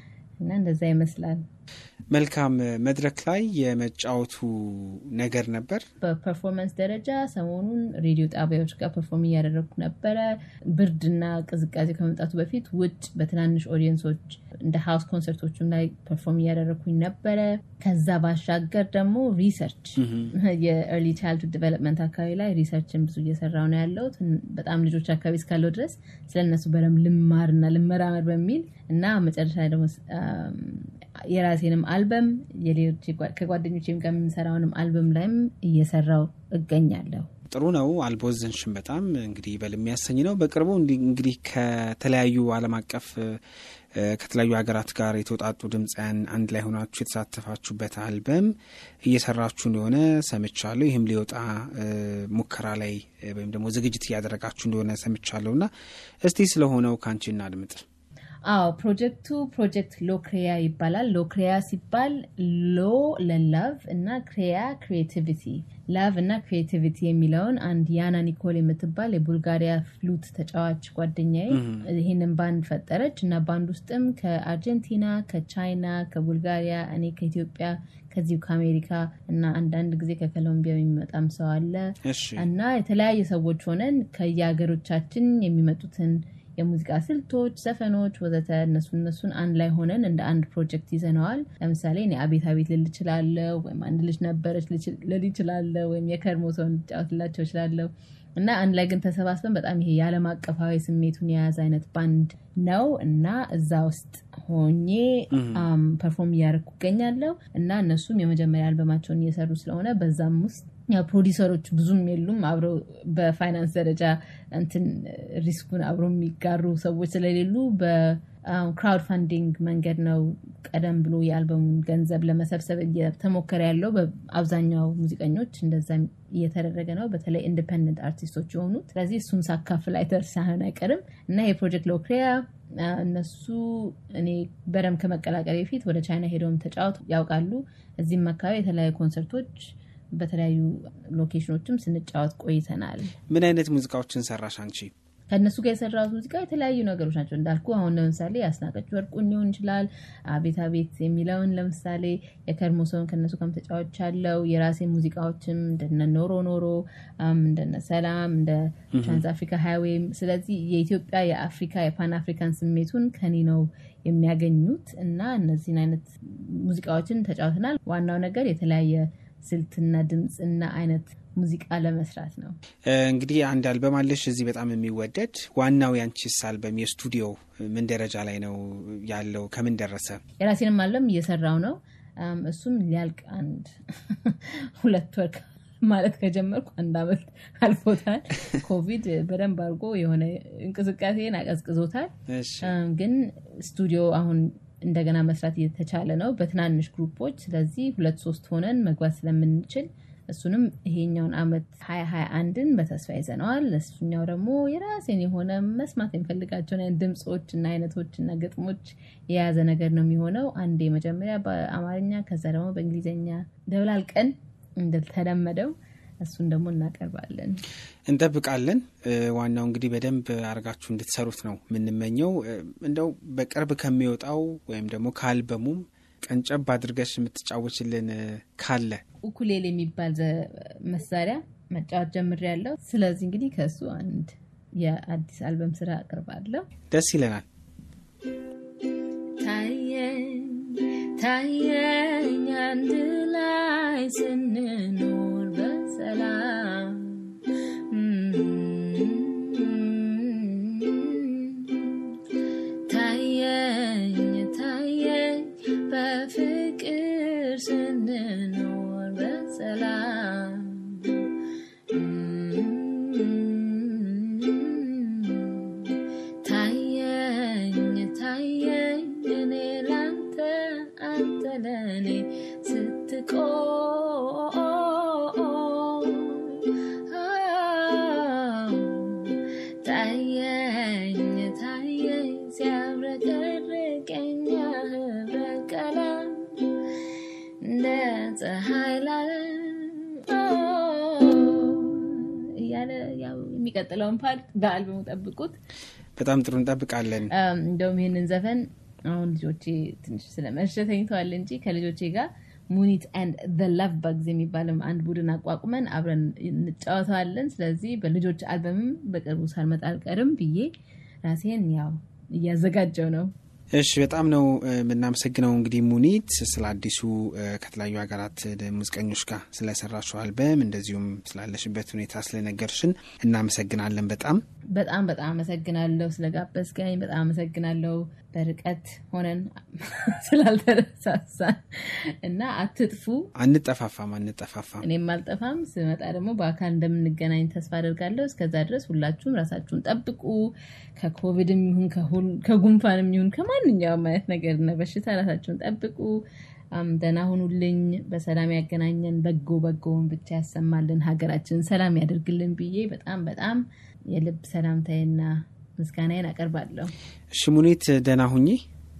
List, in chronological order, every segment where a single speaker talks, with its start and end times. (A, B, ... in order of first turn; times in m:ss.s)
0:00.4-0:01.4 A
0:02.1-0:05.8 B
0:06.0-0:37.3 A
0:20.0-0:20.3 B
0:37.5-0:43.4 B
0:43.9-0:48.5 B
0:49.0-0:55.7 B
0:56.2-0:57.8 B
0:58.5-2:23.1 A
1:11.5-1:11.9 B
1:22.0-1:22.4 B
1:45.3-1:45.7 B
2:23.3-2:24.9 B
2:25.3-2:52.6 A
2:38.9-2:39.2 B
2:52.8-3:00.2 B
3:00.4-3:37.6 A
3:12.3-3:12.7 B
3:38.1-3:49.0 B
3:49.2-3:56.6 A
3:56.9-3:57.4 B
3:59.4-4:07.4 A
4:07.9-4:12.1 A
4:12.9-4:21.3 A
4:21.9-4:46.7 A
4:47.6-4:55.6 A
4:56.2-4:57.3 B
4:57.3-5:10.7 A
5:11.2-5:13.3 A
5:13.7-5:24.4 B
5:24.7-5:33.3 A
5:33.4-5:34.8 B
5:34.8-5:56.9 A
5:57.3-5:58.6 B